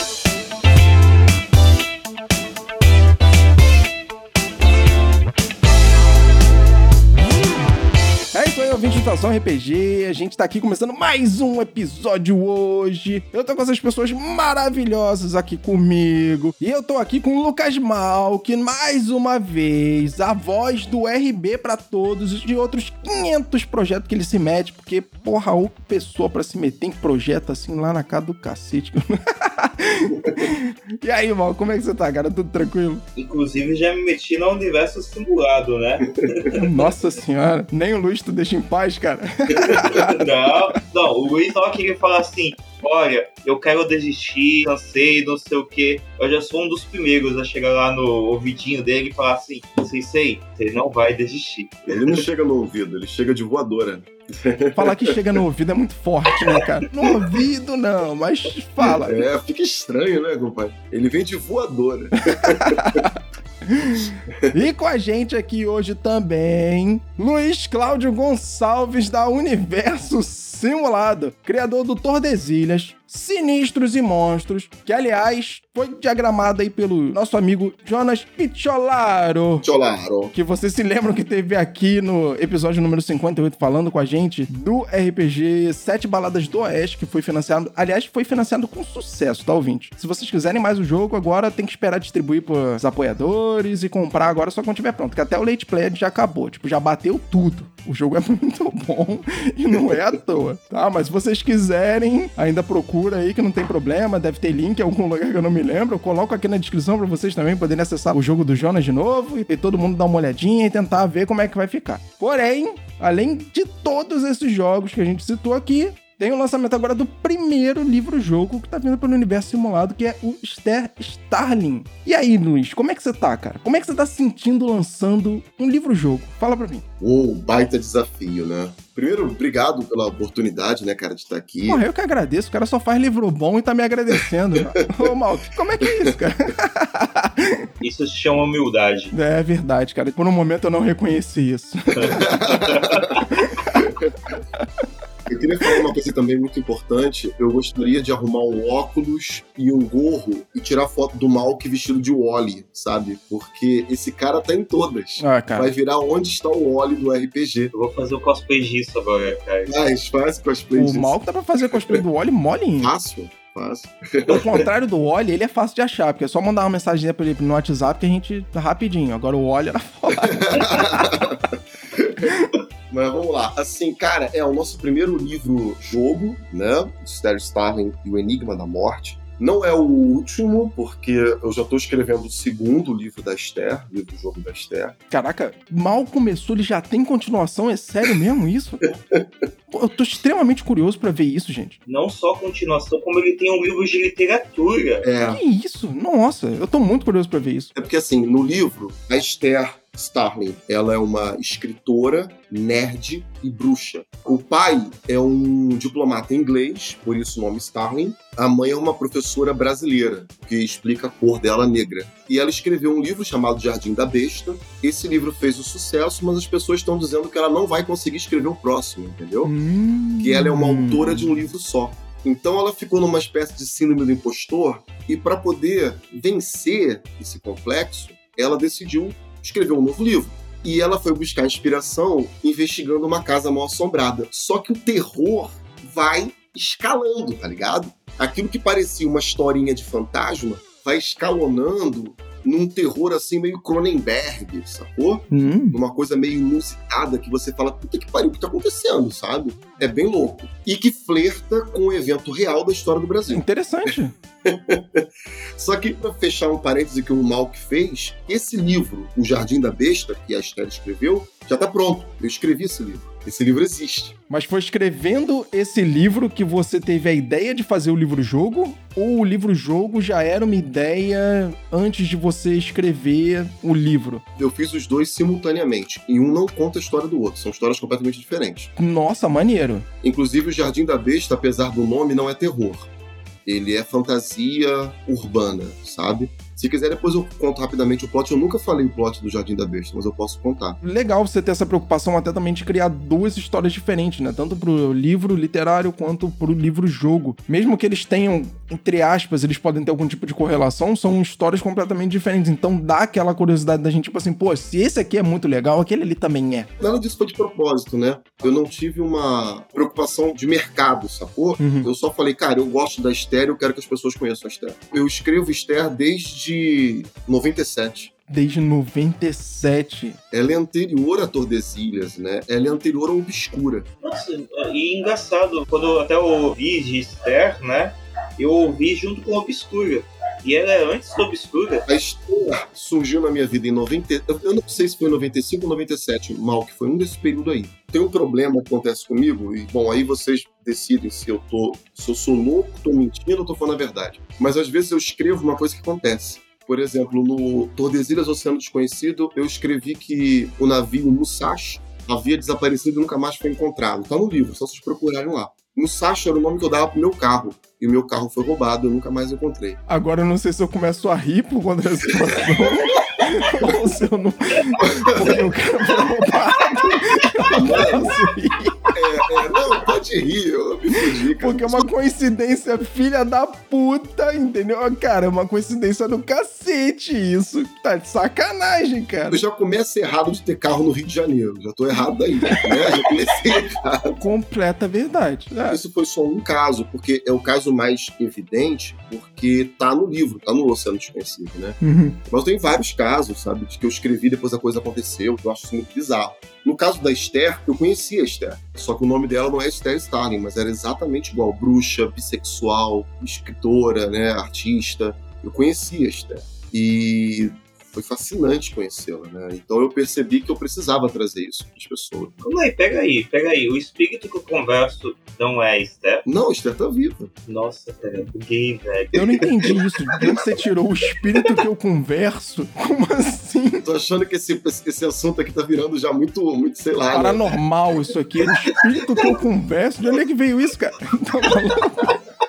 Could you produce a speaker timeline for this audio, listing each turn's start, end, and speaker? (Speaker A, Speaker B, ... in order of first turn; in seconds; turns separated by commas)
Speaker A: 8.3-33.0, Speaker B: 33.1-36.9, Speaker A: 36.5-40.1, Speaker B: 39.7-52.1, Speaker C: 51.9-55.2, Speaker A: 54.7-59.2, Speaker C: 59.0-63.0, Speaker A: 62.3-79.7, Speaker C: 79.6-80.3, Speaker A: 80.3-126.8, Speaker C: 99.9-100.1, Speaker C: 127.0-131.8, Speaker A: 131.7-137.7, Speaker C: 134.6-135.1, Speaker C: 135.8-136.2, Speaker B: 137.8-139.1, Speaker A: 139.1-142.7, Speaker C: 142.1-143.1, Speaker B: 142.7-143.2, Speaker A: 143.3-143.9, Speaker C: 143.7-144.3, Speaker C: 145.3-157.7, Speaker A: 155.2-155.7, Speaker B: 157.7-159.8, Speaker C: 159.7-161.2, Speaker A: 160.7-162.9, Speaker C: 162.8-164.7, Speaker A: 164.2-171.3, Speaker C: 170.2-171.4, Speaker C: 171.9-172.3, Speaker C: 172.9-184.9, Speaker A: 185.1-188.9, Speaker A: 189.7-191.8, Speaker B: 191.9-195.1, Speaker C: 195.0-195.4, Speaker A: 195.3-197.7, Speaker C: 197.7-219.5, Speaker A: 219.4-221.4, Speaker C: 220.2-253.9, Speaker A: 245.3-245.8, Speaker A: 253.3-254.2, Speaker C: 254.4-264.1, Speaker A: 264.3-274.2, Speaker C: 274.4-278.7, Speaker A: 278.8-279.9, Speaker C: 280.0-282.9, Speaker C: 283.4-290.8, Speaker A: 290.8-306.7, Speaker C: 306.8-318.1, Speaker A: 311.6-311.9, Speaker A: 318.3-320.2, Speaker C: 320.3-323.9, Speaker B: 324.0-331.9, Speaker C: 331.9-359.8, Speaker A: 359.9-368.8, Speaker C: 364.8-365.4, Speaker C: 367.5-368.2, Speaker C: 368.9-371.9, Speaker A: 371.4-379.4, Speaker C: 379.3-384.2, Speaker A: 384.2-385.8, Speaker C: 385.7-412.4, Speaker A: 391.8-392.2, Speaker B: 412.4-416.2, Speaker C: 416.2-417.3, Speaker B: 417.5-419.8, Speaker A: 419.1-423.8, Speaker C: 423.8-427.5, Speaker A: 427.1-432.2